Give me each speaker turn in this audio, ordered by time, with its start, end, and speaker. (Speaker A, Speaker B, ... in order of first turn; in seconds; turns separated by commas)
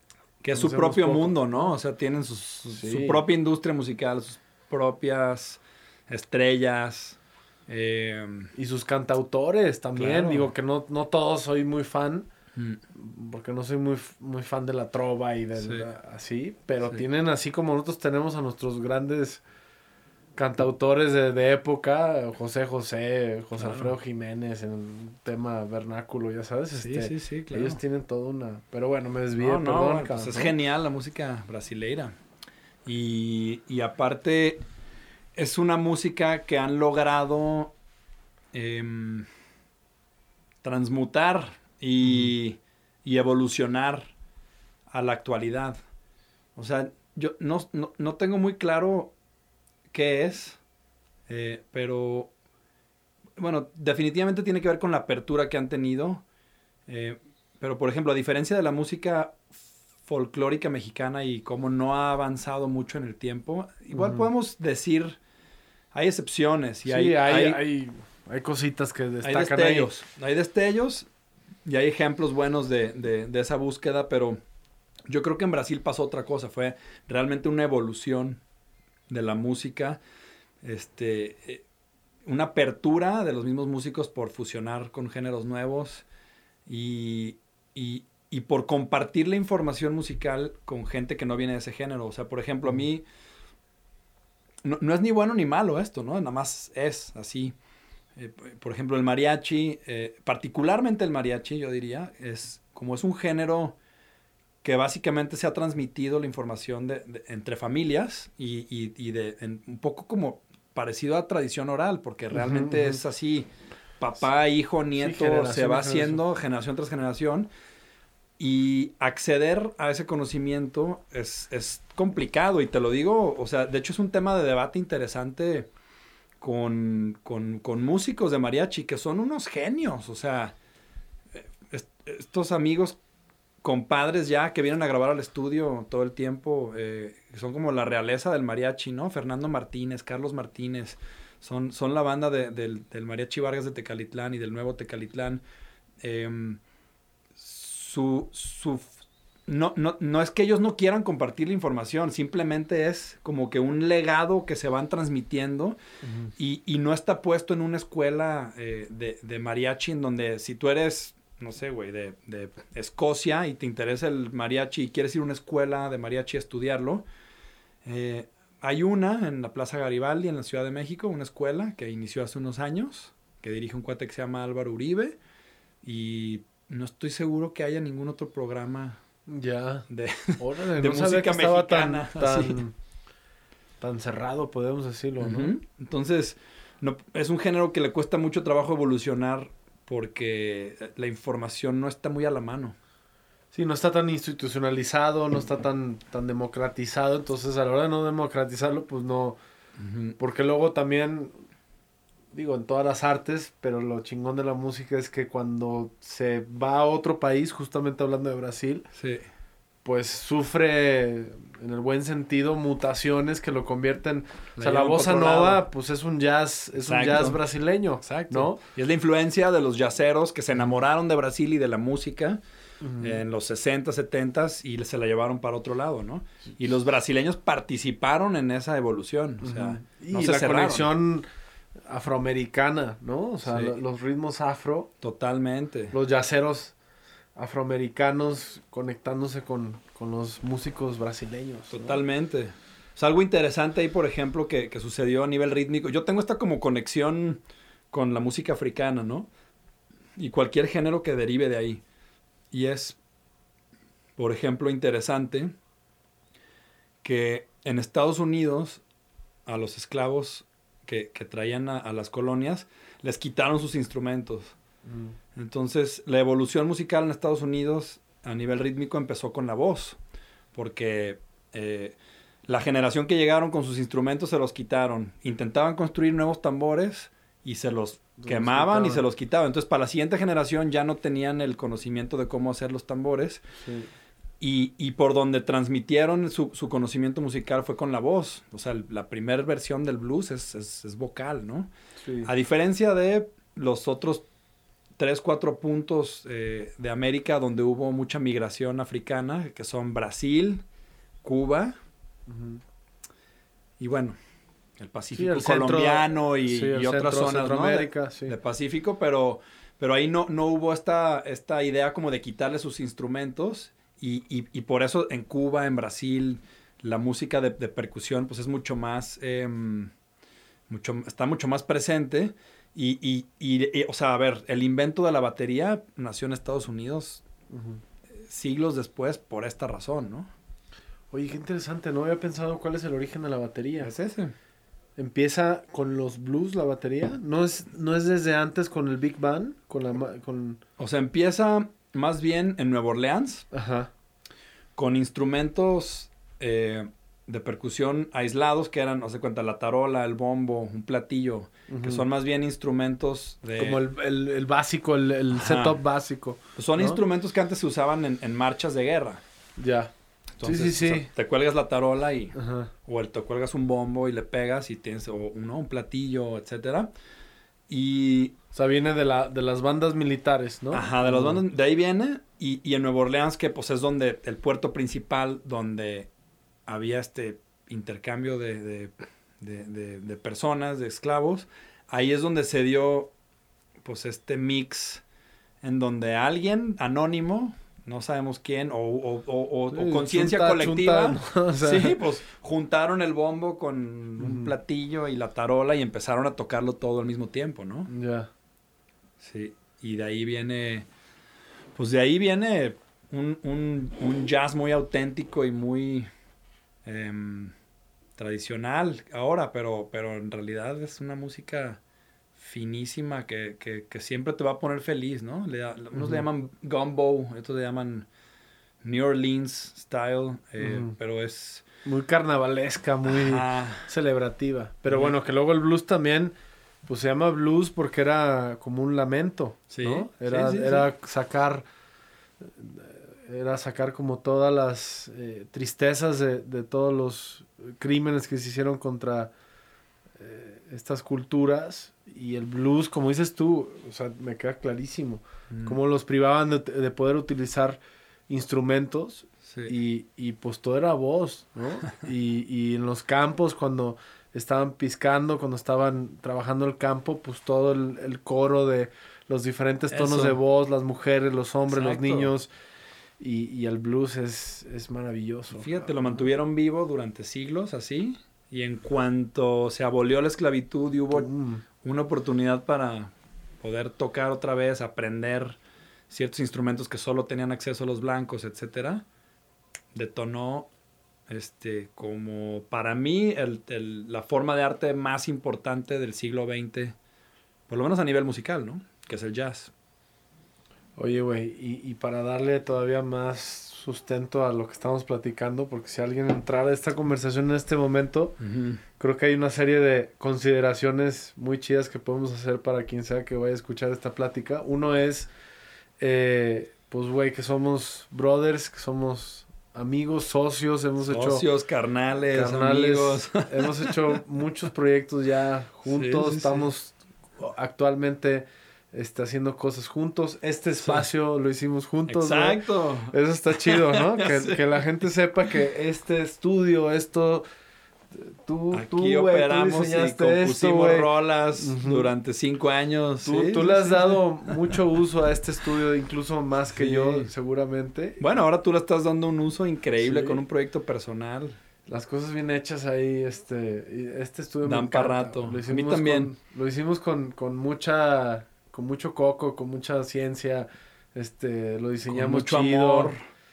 Speaker A: 0.4-8.5, Speaker B: 0.5-1.7, Speaker B: 2.8-3.2, Speaker B: 8.6-12.3, Speaker A: 10.0-10.5, Speaker A: 12.6-12.8, Speaker B: 12.9-19.4, Speaker A: 15.6-15.8, Speaker B: 20.4-30.5, Speaker A: 23.6-23.9, Speaker A: 26.7-27.8, Speaker A: 29.4-32.2, Speaker A: 32.9-34.6, Speaker A: 35.4-37.8, Speaker A: 38.5-39.3, Speaker A: 40.6-44.1, Speaker A: 44.9-45.8, Speaker A: 46.6-49.1, Speaker A: 49.9-50.6, Speaker A: 51.3-52.3, Speaker A: 53.4-56.2, Speaker A: 56.9-59.5, Speaker A: 60.0-65.2, Speaker B: 63.9-64.3, Speaker A: 65.9-67.6, Speaker B: 66.9-69.9, Speaker A: 69.2-71.1, Speaker A: 71.7-74.4, Speaker A: 75.1-78.4, Speaker A: 79.1-80.0, Speaker A: 80.6-81.6, Speaker A: 82.2-86.0, Speaker A: 86.7-93.1, Speaker A: 94.6-97.5, Speaker A: 98.2-103.8, Speaker A: 104.6-113.5, Speaker B: 112.3-113.0, Speaker A: 114.0-117.5, Speaker B: 115.0-116.2, Speaker A: 118.4-125.7, Speaker A: 126.4-130.6, Speaker A: 131.3-133.0, Speaker A: 133.6-145.4, Speaker A: 146.0-146.6, Speaker A: 147.4-148.9, Speaker A: 149.5-155.8, Speaker B: 156.0-156.3, Speaker A: 156.4-167.1, Speaker A: 167.8-175.2, Speaker A: 175.8-179.0, Speaker B: 179.3-179.9, Speaker A: 179.9-182.6, Speaker B: 180.4-182.7, Speaker B: 183.8-185.5, Speaker A: 185.2-192.8, Speaker B: 193.5-199.4, Speaker A: 199.8-200.2, Speaker B: 200.2-201.3, Speaker B: 202.3-208.9, Speaker A: 209.0-209.3, Speaker B: 209.8-218.6, Speaker A: 214.6-215.6, Speaker A: 216.8-217.4, Speaker A: 218.3-222.4, Speaker B: 222.8-223.2, Speaker A: 223.0-230.9, Speaker B: 229.4-231.3, Speaker B: 231.9-234.9, Speaker A: 233.5-233.8, Speaker A: 235.0-235.9, Speaker B: 235.9-236.8, Speaker B: 237.4-242.0, Speaker A: 241.7-249.3, Speaker A: 250.2-251.8, Speaker A: 252.5-253.0, Speaker A: 254.2-255.5, Speaker A: 257.0-258.8, Speaker A: 259.5-264.6, Speaker B: 264.9-265.2, Speaker A: 265.4-270.0, Speaker A: 270.5-283.4, Speaker B: 278.2-279.0, Speaker B: 283.6-283.9, Speaker A: 284.4-291.7, Speaker B: 292.0-292.3, Speaker A: 292.2-294.3, Speaker A: 295.0-300.6, Speaker A: 301.2-301.8, Speaker B: 302.3-302.6, Speaker A: 303.8-304.2, Speaker A: 304.8-319.9, Speaker B: 305.1-308.4, Speaker A: 320.7-327.2, Speaker B: 327.5-327.8, Speaker A: 328.2-330.3, Speaker B: 331.1-333.9, Speaker A: 333.8-334.3, Speaker B: 335.0-340.6, Speaker A: 340.8-343.4, Speaker B: 343.5-343.9, Speaker A: 344.8-353.8, Speaker B: 351.7-352.0, Speaker B: 353.6-357.0, Speaker A: 355.3-355.8, Speaker A: 356.6-359.2, Speaker B: 359.6-361.1, Speaker A: 360.4-362.4, Speaker B: 362.4-362.7, Speaker A: 362.9-366.9, Speaker A: 367.7-368.4, Speaker B: 368.5-371.4, Speaker A: 370.7-376.1, Speaker A: 376.7-383.1, Speaker A: 383.8-385.0, Speaker A: 385.6-397.9, Speaker B: 389.7-392.0, Speaker B: 394.2-394.5, Speaker B: 397.9-398.3, Speaker A: 399.2-400.9, Speaker A: 401.8-406.1, Speaker A: 406.9-407.5, Speaker A: 408.2-411.8, Speaker A: 412.4-418.1, Speaker B: 415.9-416.2, Speaker A: 418.8-421.6, Speaker B: 420.6-420.9, Speaker B: 421.9-426.3, Speaker A: 423.1-423.9, Speaker B: 426.9-431.6, Speaker A: 429.7-430.9, Speaker B: 432.6-439.3, Speaker B: 440.2-462.5, Speaker A: 445.5-445.8, Speaker A: 449.5-449.8, Speaker A: 459.9-460.4, Speaker A: 461.7-462.3, Speaker B: 463.2-466.3, Speaker A: 465.5-471.3, Speaker B: 471.1-471.6, Speaker A: 471.8-475.6, Speaker A: 476.1-479.1, Speaker A: 479.9-480.7, Speaker A: 481.3-487.0, Speaker A: 487.7-489.7, Speaker B: 491.0-498.4, Speaker A: 498.4-498.8, Speaker B: 499.0-505.3, Speaker B: 506.0-511.4, Speaker A: 511.1-514.2, Speaker B: 512.3-527.4, Speaker A: 515.9-516.7, Speaker A: 522.1-524.6, Speaker B: 528.2-532.1, Speaker A: 528.7-534.8, Speaker B: 533.2-538.2, Speaker A: 536.7-537.3, Speaker A: 538.2-541.6, Speaker B: 540.0-540.4, Speaker B: 541.9-553.2, Speaker A: 544.7-546.3, Speaker A: 552.1-553.2